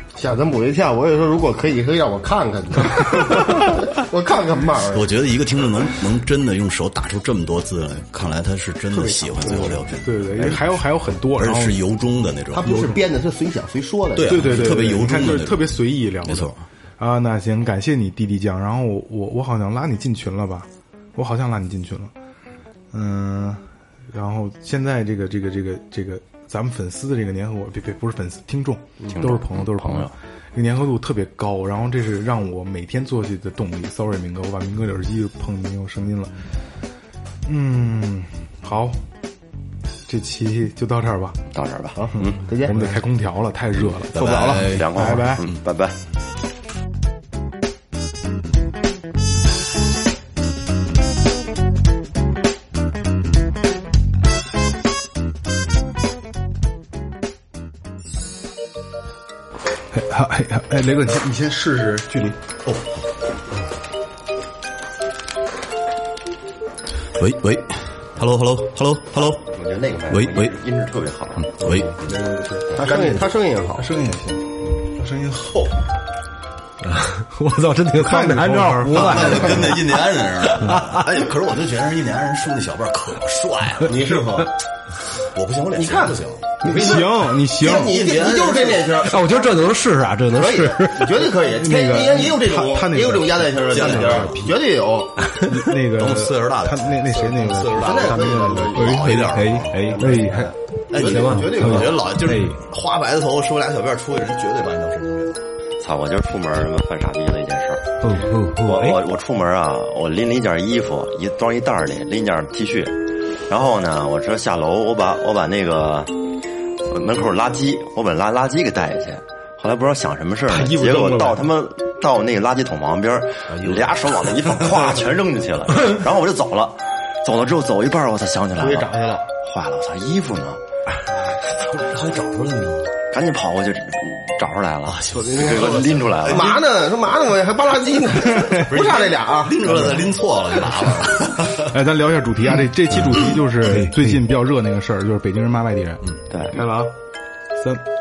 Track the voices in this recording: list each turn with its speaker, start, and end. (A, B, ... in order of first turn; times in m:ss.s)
0:00.1-0:05.1 A
0:04.9-0:10.8 B
0:08.9-0:09.8 A
0:10.0-0:11.8 C
0:11.4-0:13.0 B
0:12.5-0:15.0 A
0:12.7-0:13.0 C
0:14.1-0:16.6 B
0:14.2-0:22.1 C
0:22.9-0:36.3 C
0:29.1-0:30.1 D
0:37.4-0:39.0 C
0:40.1-0:41.4 C
0:41.5-0:42.4 D
0:42.0-0:43.0 A
0:42.6-0:44.3 C
0:44.1-0:45.6 B
0:44.1-0:44.7 A
0:44.6-0:46.0 D
0:44.9-0:45.4 C
0:59.9-1:02.4 C
1:07.2-1:09.4 B
1:09.4-1:11.6 D
1:10.1-1:10.5 B
1:11.4-1:12.0 B
1:12.0-1:15.8 C
1:12.7-1:13.9 A
1:16.8-1:19.8 E
1:17.9-1:19.8 C
1:18.9-1:24.4 B
1:20.6-1:21.0 E
1:23.8-1:24.5 A
1:25.2-1:29.0 B
1:25.7-1:29.4 A
1:26.6-1:28.0 C
1:29.0-1:31.3 E
1:30.3-1:35.3 A
1:31.4-1:34.6 C
1:33.6-1:34.4 B
1:35.4-1:39.1 C
1:35.7-1:39.8 B
1:37.8-1:39.1 A
1:38.7-1:40.4 E
1:39.8-1:42.1 A
1:40.0-1:40.5 C
1:40.9-1:45.5 B
1:41.0-1:42.6 E
1:45.8-1:47.8 D
1:48.0-1:49.0 E
1:48.6-1:53.0 D
1:53.5-1:56.2 D
1:56.9-2:08.9 D
2:00.5-2:01.4 C
2:03.6-2:04.0 B
2:08.6-2:09.3 A
2:09.4-2:10.6 D
2:11.5-2:13.0 B
2:13.1-2:16.5 D
2:14.8-2:16.6 B
2:15.1-2:20.0 A
2:18.3-2:18.7 C
2:18.7-2:21.8 B
2:21.5-2:27.0 C
2:26.3-2:26.6 D
2:27.6-2:27.8 C